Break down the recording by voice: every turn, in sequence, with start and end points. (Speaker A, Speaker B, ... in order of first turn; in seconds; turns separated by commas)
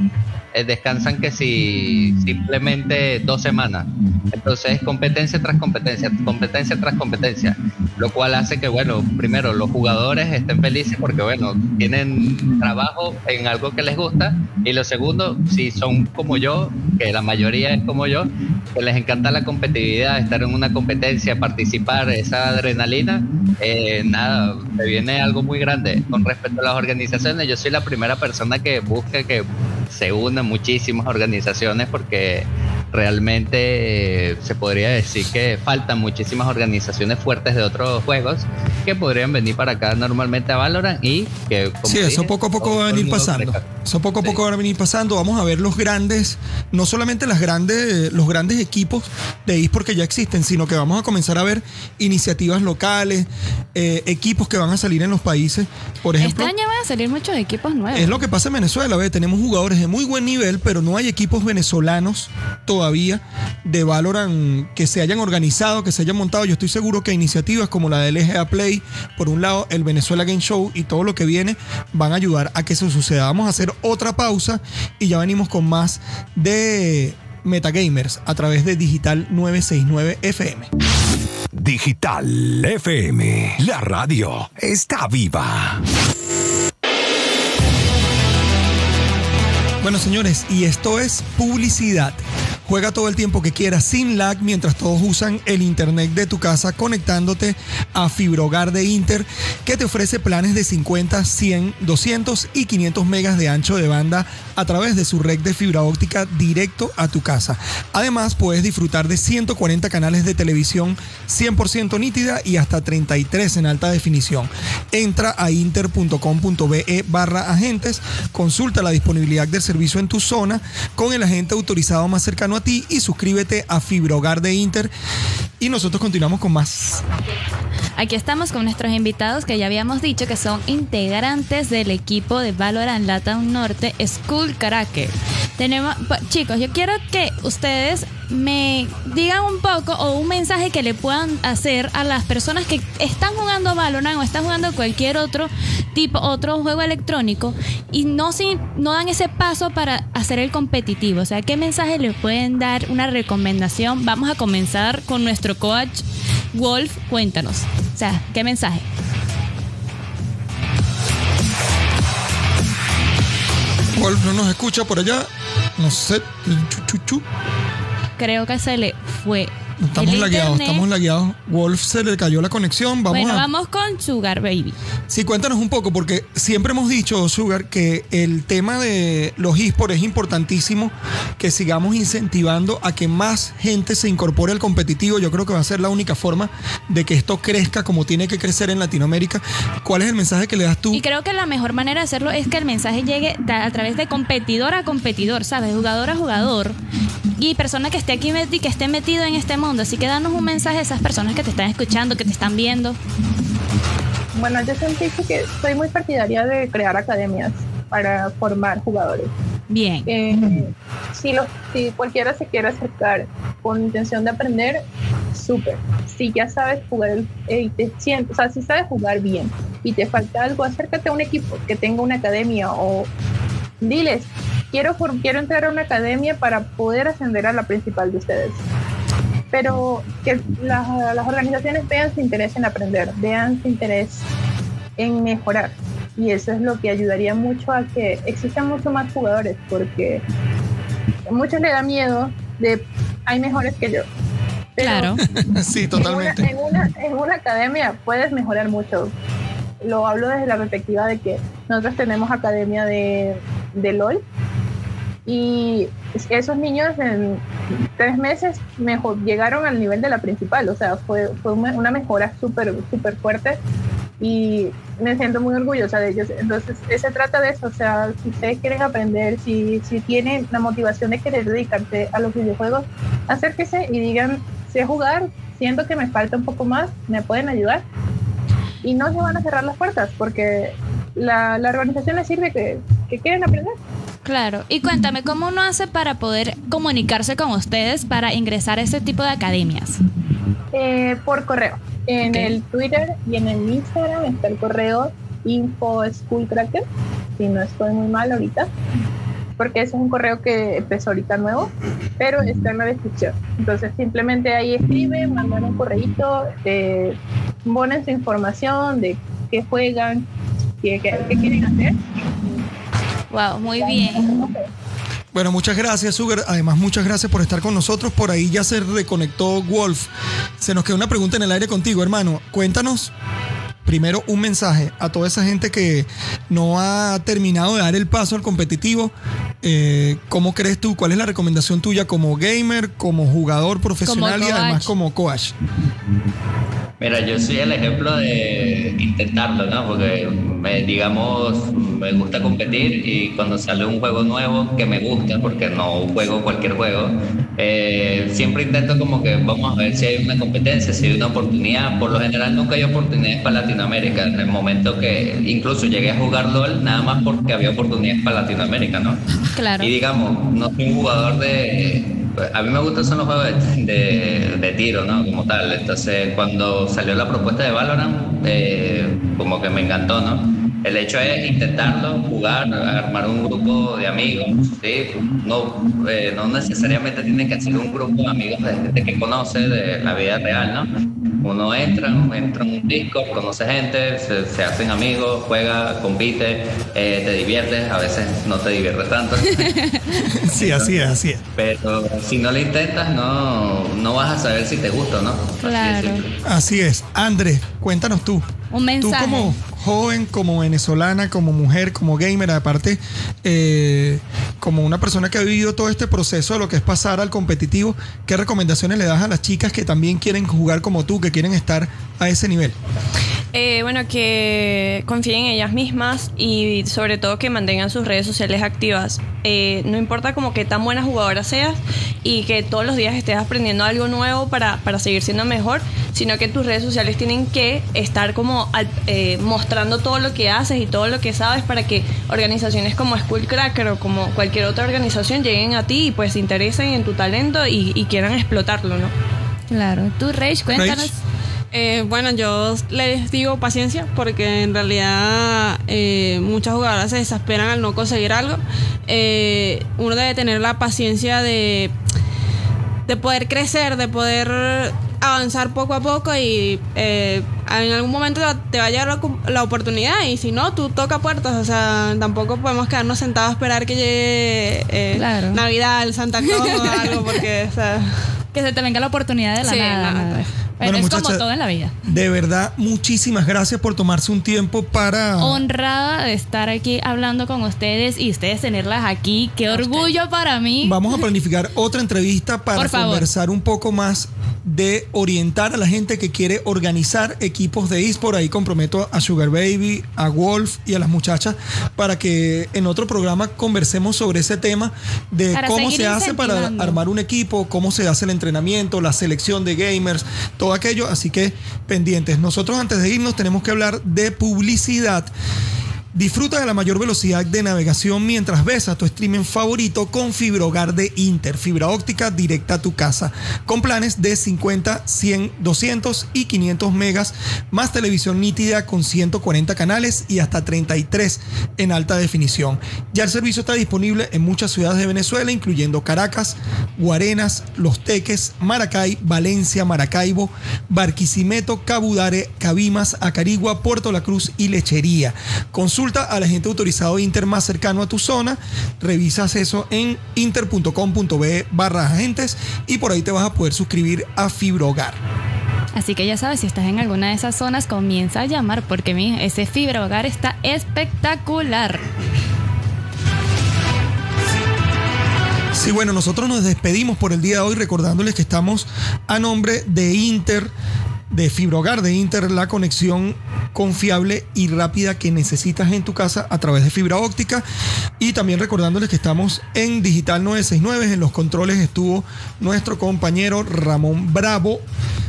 Speaker A: 0.5-43.6, Speaker B: 41.8-56.5, Speaker C: 56.2-58.2, Speaker B: 57.9-80.7, Speaker D: 81.5-85.8, Speaker B: 89.8-124.9, Speaker B: 125.6-127.0, Speaker C: 128.0-158.8, Speaker B: 163.9-167.2, Speaker C: 168.2-170.9, Speaker B: 169.8-173.5, Speaker C: 173.1-174.8, Speaker B: 175.1-191.0, Speaker C: 190.9-196.8, Speaker C: 197.4-203.0, Speaker E: 204.3-209.3, Speaker C: 209.7-210.1, Speaker E: 210.1-214.8, Speaker E: 215.3-223.1, Speaker E: 223.8-228.6, Speaker E: 229.5-234.2, Speaker E: 235.0-240.2, Speaker E: 241.3-244.1, Speaker E: 244.8-245.2, Speaker C: 244.8-245.2, Speaker B: 245.4-246.5, Speaker E: 245.9-249.1, Speaker E: 249.8-254.2, Speaker E: 255.3-257.4, Speaker E: 258.0-263.6, Speaker E: 264.2-277.8, Speaker E: 278.8-283.8, Speaker C: 284.2-290.0, Speaker E: 290.7-296.8, Speaker C: 292.3-292.6, Speaker E: 297.4-298.7, Speaker E: 299.6-310.3, Speaker E: 310.8-312.6, Speaker C: 313.3-314.3, Speaker E: 313.8-314.6, Speaker B: 315.3-323.1, Speaker B: 323.9-335.6, Speaker C: 334.1-334.9, Speaker A: 337.0-359.2, Speaker C: 359.6-359.9, Speaker A: 359.8-380.9, Speaker A: 381.4-389.8, Speaker C: 389.6-390.3, Speaker B: 390.2-391.4, Speaker A: 390.5-396.3, Speaker C: 395.6-396.2, Speaker B: 396.4-398.5, Speaker C: 398.7-399.6, Speaker B: 399.0-412.8, Speaker F: 413.5-439.1, Speaker C: 439.7-441.2, Speaker B: 440.7-441.1, Speaker G: 441.7-451.9, Speaker G: 453.1-468.3, Speaker C: 465.1-465.6, Speaker C: 466.4-467.3, Speaker C: 468.5-472.0, Speaker G: 469.6-470.5, Speaker B: 470.8-471.4, Speaker B: 472.0-475.6, Speaker C: 475.4-481.0, Speaker G: 479.7-480.1, Speaker B: 480.8-505.3, Speaker C: 482.8-483.3, Speaker C: 495.5-497.0, Speaker B: 506.1-545.2, Speaker C: 545.9-552.0, Speaker B: 555.7-560.7, Speaker B: 561.3-567.6, Speaker B: 568.2-574.9